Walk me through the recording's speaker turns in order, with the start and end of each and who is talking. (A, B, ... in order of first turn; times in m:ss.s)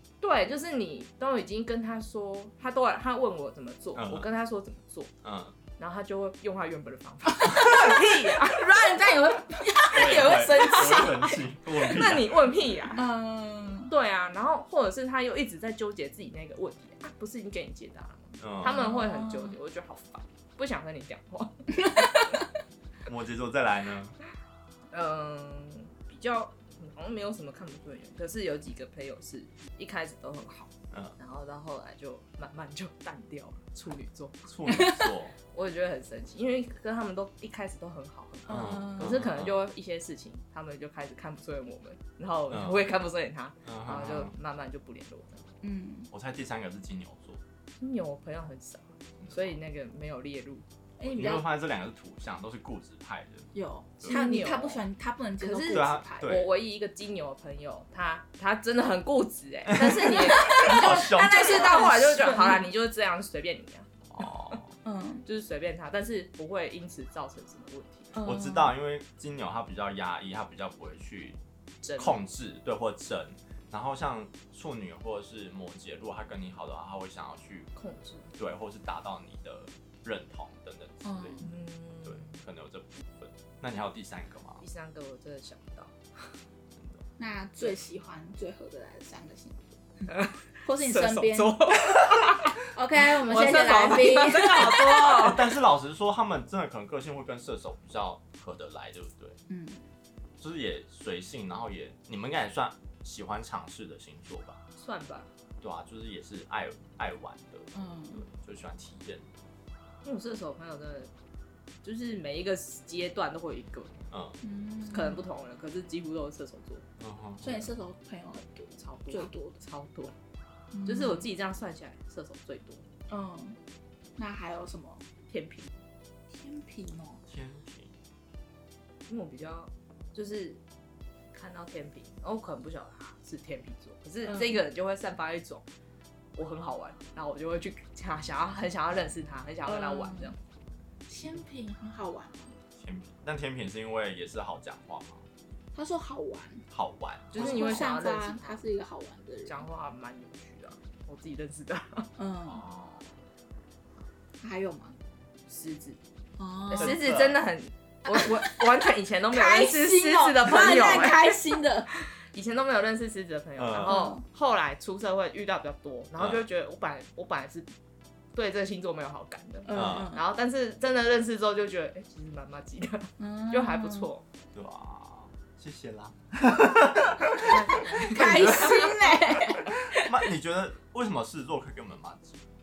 0:00.2-0:05.1 A
0:04.0-0:04.3 B
0:05.2-0:05.6 B
0:05.8-0:08.7 A
0:07.4-0:11.4 C
0:09.9-0:12.8 B
0:11.8-0:13.0 A
0:13.0-0:13.9 C
0:13.9-0:22.3 A
0:18.4-0:19.0 B
0:18.6-0:19.6 C
0:21.9-0:22.2 C
0:23.1-0:24.2 B
0:24.9-0:34.5 A
0:34.5-0:35.4 B
0:34.7-0:35.1 C
0:35.5-0:45.5 A
0:38.5-0:39.2 C
0:38.5-0:39.6 B
0:42.5-0:42.9 B
0:43.7-0:44.4 B
0:45.6-0:46.1 C
0:46.1-0:47.4 B
0:47.8-0:50.6 A
0:49.2-0:49.6 B
0:51.0-0:51.5 C
0:51.0-0:54.2 B
0:53.5-0:56.3 C
0:54.0-0:54.8 A
0:55.4-1:03.9 A
0:55.7-0:56.5 B
0:59.7-1:02.3 B
0:59.9-1:02.6 C
1:04.1-1:04.7 B
1:04.8-1:05.2 C
1:05.3-1:08.2 A
1:08.2-1:08.7 C
1:08.2-1:11.4 B
1:11.8-1:12.2 A
1:12.0-1:17.7 B
1:17.8-1:18.3 A
1:18.4-1:21.5 B
1:21.0-1:21.5 C
1:21.4-1:22.3 A
1:22.0-1:24.6 B
1:24.6-1:26.4 A
1:27.2-1:31.6 C
1:30.1-1:32.6 A
1:31.9-1:32.3 B
1:32.7-1:35.3 C
1:33.1-1:35.5 A
1:33.3-1:39.4 B
1:39.5-1:39.8 C
1:40.4-1:44.6 B
1:44.8-1:45.3 A
1:45.6-1:49.3 B
1:47.7-1:48.2 C
1:50.0-1:51.1 A
1:51.8-1:54.0 A
1:54.1-1:54.4 B
1:54.4-1:55.3 C
1:54.9-1:56.8 A
1:57.0-1:57.7 B
1:57.4-1:59.6 C
1:58.8-2:00.2 A
2:00.7-2:01.3 C
2:00.9-2:02.9 A
2:03.1-2:03.6 C
2:04.2-2:05.0 C
2:05.3-2:05.7 A
2:06.3-2:07.2 C
2:07.3-2:07.9 B
2:09.1-2:10.6 A
2:11.3-2:15.6 A
2:14.3-2:14.6 C
2:16.4-2:20.4 A
2:19.7-2:20.4 C
2:21.1-2:22.5 C
2:22.8-2:25.2 B
2:25.7-2:26.6 C
2:26.7-2:27.9 B
2:27.3-2:28.6 A
2:27.4-2:29.6 C
2:29.5-2:32.1 A
2:32.2-2:32.6 C
2:32.5-2:33.2 B
2:34.4-2:35.0 C
2:35.5-2:36.0 A
2:36.4-2:37.0 C
2:36.7-2:47.7 A
2:36.8-2:37.4 B
2:38.0-2:38.6 C
2:39.3-2:41.9 C
2:43.6-2:44.1 B
2:43.8-2:44.2 C
2:46.2-2:46.4 B
2:48.3-2:54.2 A
2:49.6-2:50.2 C
2:49.7-2:50.1 B
2:53.2-2:54.1 C
2:54.5-3:02.4 B
2:57.2-2:59.0 A
2:57.7-3:00.2 C